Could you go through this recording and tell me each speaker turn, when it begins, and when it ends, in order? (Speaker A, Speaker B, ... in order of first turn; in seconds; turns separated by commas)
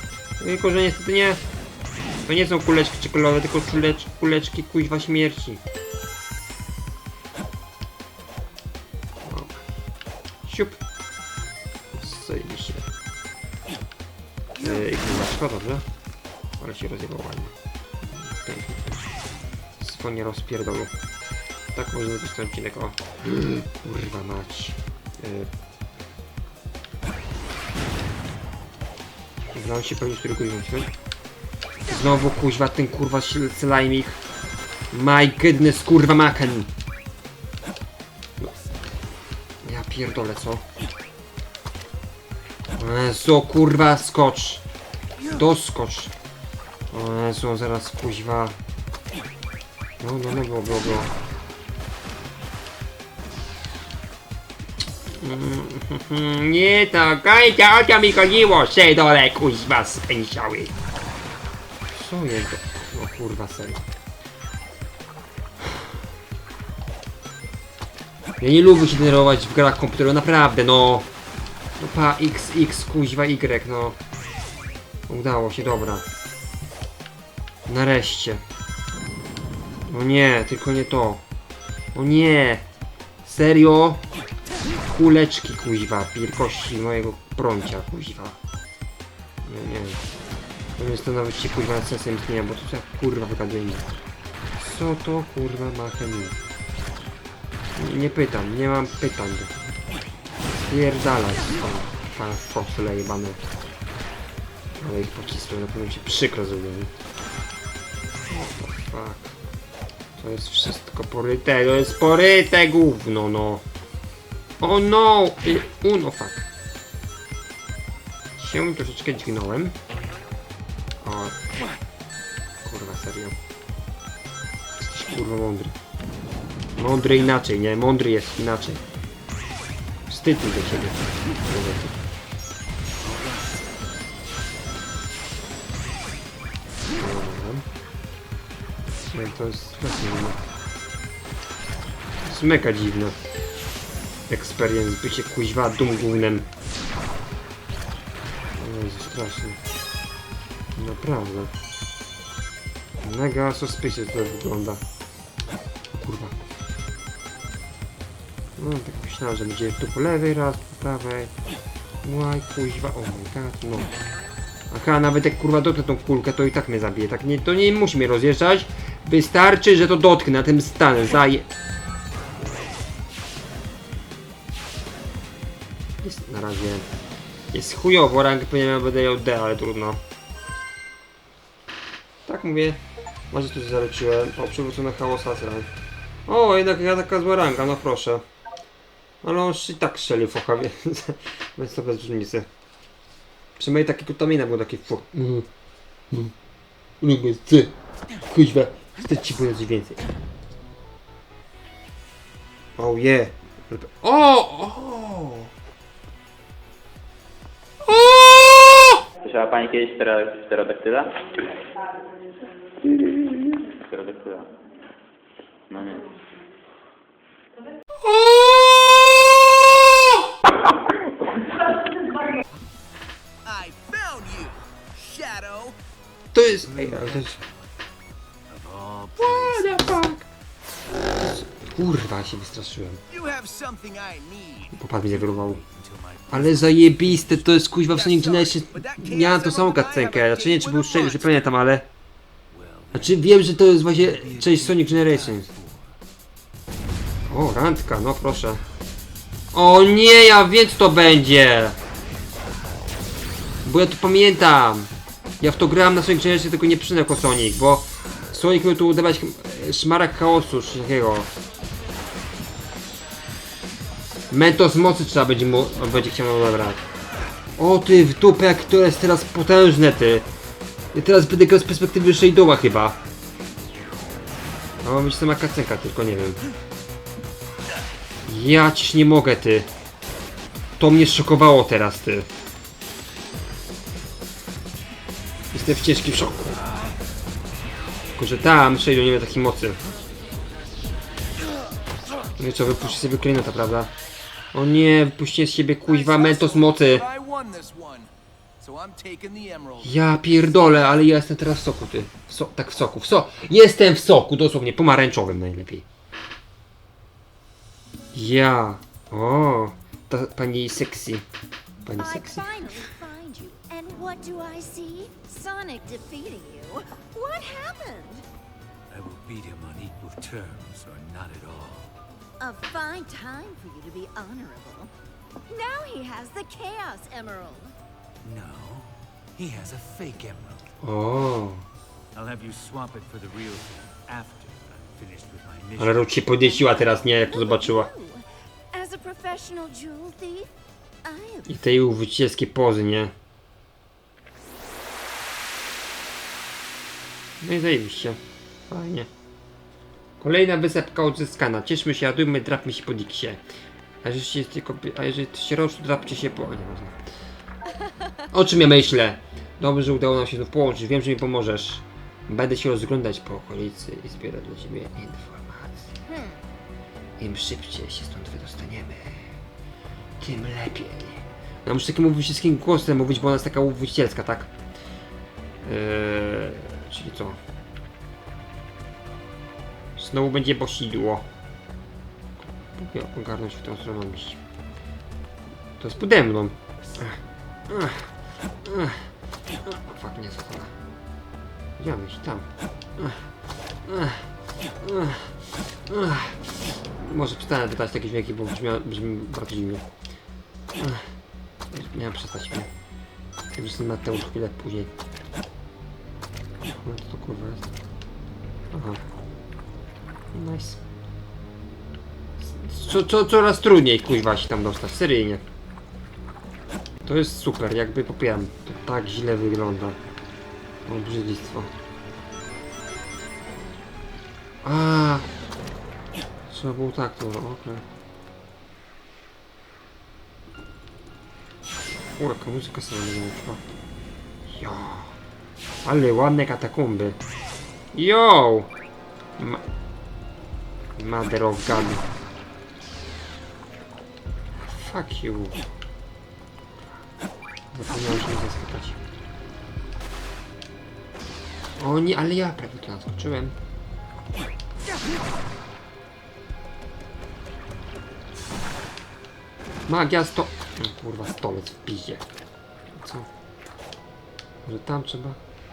Speaker A: 0.4-1.4, Speaker A: 2.2-5.6, Speaker A: 9.2-9.6, Speaker A: 10.4-10.8, Speaker A: 11.9-12.9, Speaker A: 14.6-15.8, Speaker A: 16.6-17.5, Speaker A: 18.1-19.1, Speaker A: 19.8-20.9, Speaker A: 21.7-25.5, Speaker A: 29.5-30.9, Speaker A: 31.9-34.2, Speaker A: 34.9-36.7, Speaker A: 39.6-40.6, Speaker A: 42.8-44.6, Speaker A: 45.3-46.1, Speaker A: 46.9-48.5, Speaker A: 50.0-51.1, Speaker A: 55.1-60.7, Speaker A: 61.9-63.8, Speaker A: 68.4-71.1, Speaker A: 71.8-74.0, Speaker A: 75.1-76.0, Speaker A: 77.7-78.4, Speaker A: 79.8-81.2, Speaker A: 81.9-82.6, Speaker A: 83.2-84.0, Speaker A: 84.9-88.4, Speaker A: 89.4-90.0, Speaker A: 90.8-93.9, Speaker A: 94.6-96.4, Speaker A: 97.7-99.5, Speaker A: 100.5-103.4, Speaker A: 104.8-106.9, Speaker A: 108.3-109.3, Speaker A: 110.2-113.6, Speaker A: 114.6-116.5, Speaker A: 118.4-119.8, Speaker A: 121.0-121.4, Speaker A: 122.6-123.4, Speaker A: 124.7-125.8, Speaker A: 126.8-128.8, Speaker A: 130.1-132.0, Speaker B: 133.0-133.7, Speaker A: 136.9-137.7, Speaker A: 139.1-140.4, Speaker A: 142.2-143.2, Speaker A: 144.3-146.5, Speaker A: 148.5-149.6, Speaker A: 150.8-151.5, Speaker A: 153.0-154.8, Speaker A: 156.0-156.3, Speaker A: 158.6-161.3, Speaker A: 162.0-163.9, Speaker A: 164.7-171.5, Speaker A: 176.0-176.9, Speaker A: 177.5-180.0, Speaker A: 182.2-185.7, Speaker A: 186.3-188.2, Speaker A: 189.2-192.5, Speaker A: 193.6-195.5, Speaker A: 197.0-197.7, Speaker A: 198.2-200.0, Speaker A: 202.8-205.5, Speaker A: 207.8-209.0, Speaker C: 209.2-211.2, Speaker C: 213.7-214.5, Speaker C: 215.7-216.1, Speaker A: 218.0-220.1, Speaker D: 223.4-225.7, Speaker A: 226.3-227.3, Speaker B: 226.4-227.9, Speaker B: 228.5-230.2, Speaker A: 229.2-230.2, Speaker A: 231.2-233.0, Speaker D: 233.1-234.7, Speaker A: 234.7-235.6, Speaker B: 235.1-237.7, Speaker A: 236.3-241.9, Speaker D: 237.9-241.5, Speaker B: 242.5-246.0, Speaker A: 242.9-245.5, Speaker A: 247.3-248.6, Speaker A: 249.5-251.8, Speaker A: 253.6-261.3, Speaker A: 264.3-266.8, Speaker A: 267.6-270.3, Speaker A: 270.9-273.0, Speaker A: 274.8-276.4, Speaker A: 278.2-279.7, Speaker A: 280.8-282.3, Speaker A: 285.5-286.6, Speaker A: 288.1-289.8, Speaker A: 292.4-293.9, Speaker A: 294.5-297.1, Speaker D: 295.9-300.0, Speaker A: 299.8-305.8, Speaker A: 308.1-311.3, Speaker A: 311.8-312.7, Speaker E: 311.9-318.2, Speaker B: 318.9-321.9, Speaker E: 322.4-324.9, Speaker E: 325.5-327.7, Speaker B: 328.2-330.7, Speaker A: 330.8-331.6, Speaker B: 332.1-336.9, Speaker A: 335.8-337.9, Speaker E: 336.4-340.5, Speaker E: 341.0-341.6, Speaker A: 341.4-343.1, Speaker A: 347.4-349.1, Speaker A: 350.2-353.4, Speaker A: 354.0-356.9, Speaker A: 358.3-365.9, Speaker E: 366.1-366.4, Speaker A: 367.2-369.3, Speaker A: 370.2-374.5, Speaker A: 375.6-377.4, Speaker A: 380.0-381.2, Speaker A: 382.4-384.4, Speaker A: 385.8-388.1, Speaker A: 388.6-389.1, Speaker A: 389.6-390.7, Speaker A: 391.8-392.4, Speaker A: 393.0-393.3, Speaker A: 393.8-394.3, Speaker A: 394.8-399.9, Speaker A: 400.8-401.1, Speaker A: 401.7-402.7, Speaker A: 403.5-404.9, Speaker A: 406.7-407.7, Speaker A: 408.7-409.0, Speaker A: 410.3-410.8, Speaker A: 412.4-415.4, Speaker A: 417.0-420.0, Speaker A: 420.9-421.7, Speaker A: 424.6-425.3, Speaker A: 426.5-427.8, Speaker A: 432.2-433.6, Speaker A: 434.5-435.2, Speaker A: 435.8-437.2, Speaker A: 437.9-438.7, Speaker A: 439.4-439.6, Speaker A: 441.0-442.0, Speaker A: 444.6-445.6, Speaker A: 447.7-449.0, Speaker A: 451.8-453.6, Speaker A: 459.9-462.2, Speaker A: 462.9-463.3, Speaker A: 464.6-465.4